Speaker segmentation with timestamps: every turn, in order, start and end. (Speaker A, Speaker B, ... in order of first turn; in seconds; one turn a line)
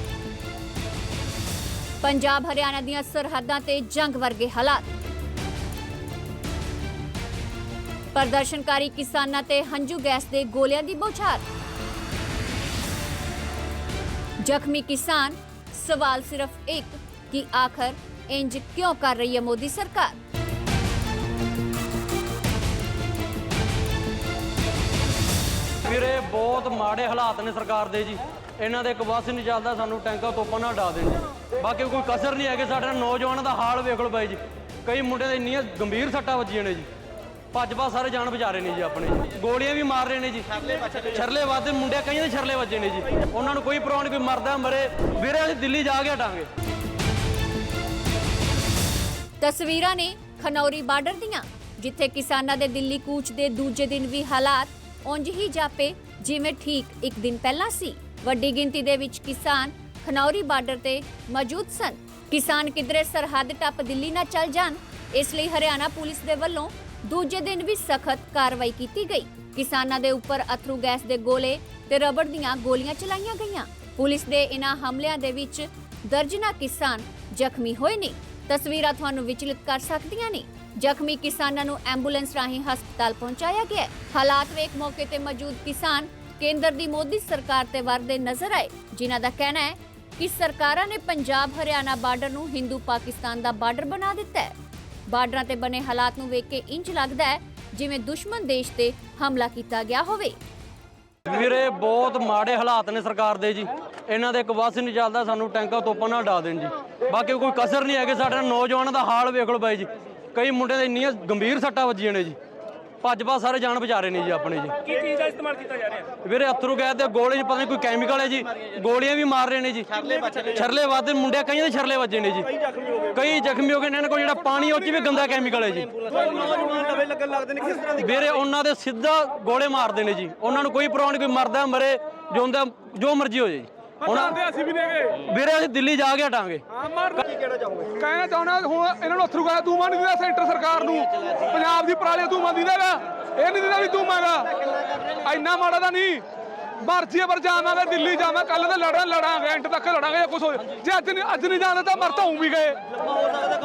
Speaker A: 2.0-4.9
Speaker A: 8.1-11.4
Speaker A: 14.4-20.2
Speaker B: 25.8-36.9
Speaker B: 37.5-46.5
Speaker A: 49.4-94.5
Speaker A: 95.1-100.4
Speaker B: 101.2-112.4
Speaker B: 113.0-115.2
Speaker B: 116.2-126.8
Speaker C: 126.4-126.9
Speaker B: 127.6-136.6
Speaker C: 134.4-135.1
Speaker C: 136.8-146.2
Speaker C: 146.8-153.0